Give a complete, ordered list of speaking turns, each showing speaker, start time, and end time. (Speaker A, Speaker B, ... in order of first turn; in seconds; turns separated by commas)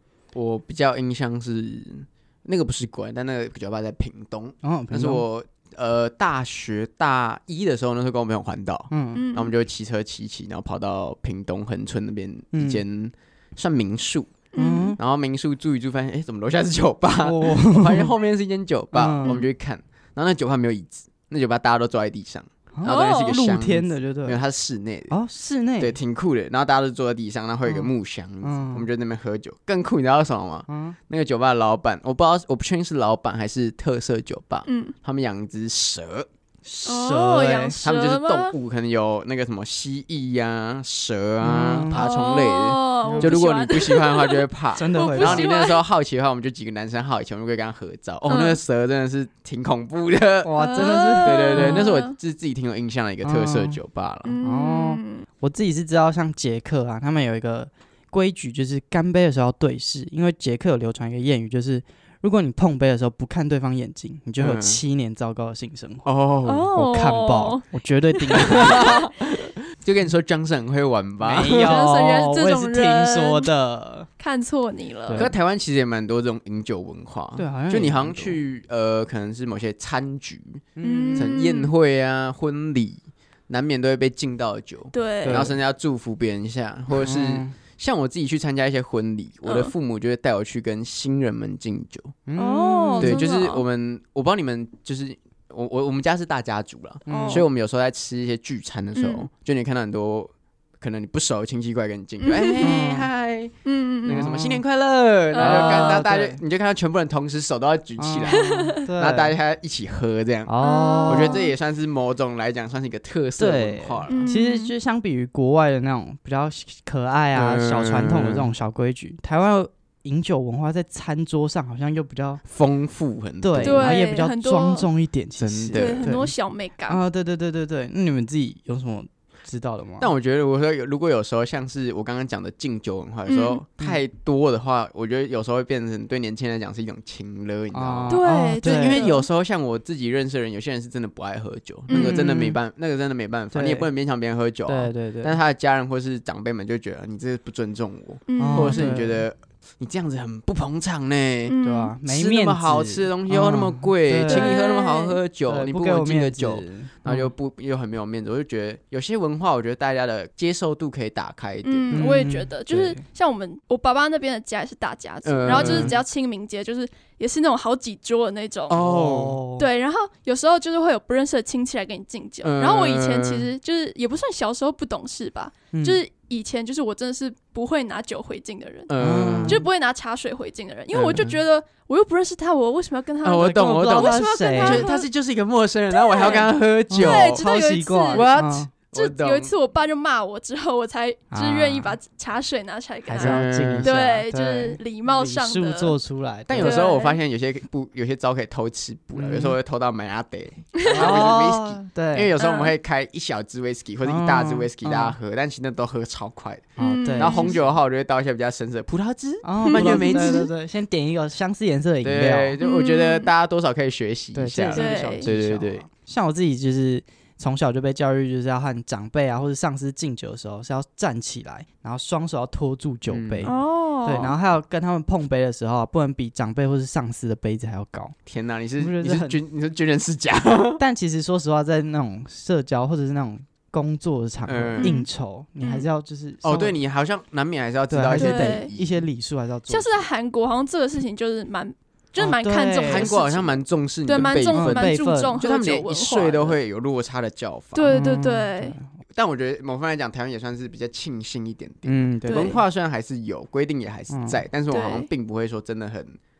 Speaker A: 0.3-14.4, Speaker B: 4.6-5.2, Speaker B: 8.9-9.2, Speaker C: 9.1-9.5, Speaker B: 12.5-12.8, Speaker C: 14.5-14.9, Speaker B: 14.6-15.0, Speaker A: 15.0-25.1, Speaker B: 17.2-18.1, Speaker B: 18.9-19.4, Speaker B: 22.7-24.4, Speaker C: 22.8-23.4, Speaker B: 25.1-25.9, Speaker A: 25.8-36.3, Speaker B: 28.4-28.9, Speaker B: 30.7-31.0, Speaker C: 34.7-34.9, Speaker B: 36.6-37.8, Speaker C: 36.9-38.5, Speaker A: 37.8-54.4, Speaker B: 41.4-42.0, Speaker C: 41.9-45.8, Speaker B: 43.1-43.4, Speaker B: 44.8-45.5, Speaker C: 48.3-48.6, Speaker B: 50.4-51.9, Speaker C: 50.6-52.1, Speaker B: 53.2-53.8, Speaker C: 54.2-55.3, Speaker B: 54.4-66.1, Speaker A: 64.4-64.8, Speaker A: 66.0-66.7, Speaker C: 66.5-67.6, Speaker B: 66.7-68.9, Speaker C: 68.3-69.1, Speaker A: 68.4-71.8, Speaker B: 71.2-74.1, Speaker C: 71.5-73.5, Speaker C: 74.2-75.3, Speaker B: 75.1-75.3, Speaker A: 75.1-92.1, Speaker B: 77.4-78.4, Speaker B: 80.8-81.3, Speaker C: 80.8-81.7, Speaker C: 84.9-85.5, Speaker B: 85.2-85.6, Speaker B: 86.9-87.6, Speaker C: 89.4-89.7, Speaker B: 92.3-93.3, Speaker C: 92.4-93.6, Speaker A: 93.0-110.5, Speaker B: 97.1-97.5, Speaker C: 97.1-97.5, Speaker C: 99.0-99.3, Speaker C: 102.2-102.8, Speaker B: 102.6-103.1, Speaker C: 103.6-104.2, Speaker B: 104.1-104.6, Speaker C: 105.3-106.0, Speaker B: 105.4-106.4, Speaker B: 108.0-109.3, Speaker C: 108.3-108.8, Speaker B: 110.5-111.4, Speaker C: 110.6-111.5, Speaker A: 111.0-114.3, Speaker B: 113.4-122.4, Speaker C: 114.1-114.7, Speaker A: 117.3-118.5, Speaker A: 122.4-124.1, Speaker B: 123.4-126.3, Speaker C: 123.6-124.9, Speaker A: 125.4-126.2, Speaker C: 125.8-127.0, Speaker B: 126.9-130.1, Speaker A: 130.0-162.8, Speaker C: 133.3-133.6, Speaker B: 137.7-139.0, Speaker C: 138.1-139.2, Speaker C: 141.9-142.2, Speaker B: 141.9-142.6, Speaker B: 143.5-143.9, Speaker B: 144.7-145.4, Speaker C: 148.3-148.9, Speaker B: 148.4-149.2, Speaker C: 151.5-151.9, Speaker B: 151.6-154.5, Speaker C: 154.3-155.2, Speaker B: 155.5-157.3, Speaker C: 161.6-168.8, Speaker B: 161.9-163.0, Speaker A: 165.2-166.0, Speaker B: 165.5-166.0, Speaker A: 168.7-169.4, Speaker B: 168.7-169.7, Speaker C: 169.6-185.1, Speaker A: 172.4-173.5, Speaker B: 175.7-176.0, Speaker A: 178.9-179.6, Speaker B: 179.0-179.7, Speaker A: 180.9-181.3, Speaker A: 183.2-187.4, Speaker B: 183.6-184.9, Speaker C: 185.9-188.3, Speaker B: 186.9-188.7, Speaker A: 188.1-189.5, Speaker C: 188.9-195.9, Speaker B: 191.3-191.9, Speaker B: 193.1-196.8, Speaker A: 193.2-193.9, Speaker A: 196.5-210.5, Speaker C: 196.6-197.2, Speaker B: 199.1-199.6, Speaker C: 200.8-201.2, Speaker B: 200.9-202.3, Speaker C: 202.4-202.7, Speaker B: 204.0-205.2, Speaker B: 206.8-207.5, Speaker C: 206.8-207.6, Speaker B: 209.4-212.6, Speaker C: 209.6-210.5, Speaker A: 212.0-215.9, Speaker C: 212.6-213.3, Speaker B: 214.3-228.1, Speaker C: 214.7-215.2, Speaker A: 223.1-223.6, Speaker C: 223.4-224.3, Speaker A: 228.3-230.8, Speaker B: 228.8-229.4, Speaker B: 230.8-236.7, Speaker A: 234.5-234.9, Speaker C: 234.8-235.1, Speaker C: 235.6-235.9, Speaker A: 236.4-239.1, Speaker B: 237.9-240.1, Speaker C: 238.2-238.7, Speaker C: 239.7-246.6, Speaker B: 242.2-243.1, Speaker A: 242.8-247.9, Speaker B: 244.5-245.4, Speaker C: 247.7-248.8, Speaker B: 247.9-248.9, Speaker A: 249.1-256.2, Speaker B: 251.8-252.6, Speaker C: 252.2-252.6, Speaker B: 254.1-254.4, Speaker C: 254.7-255.1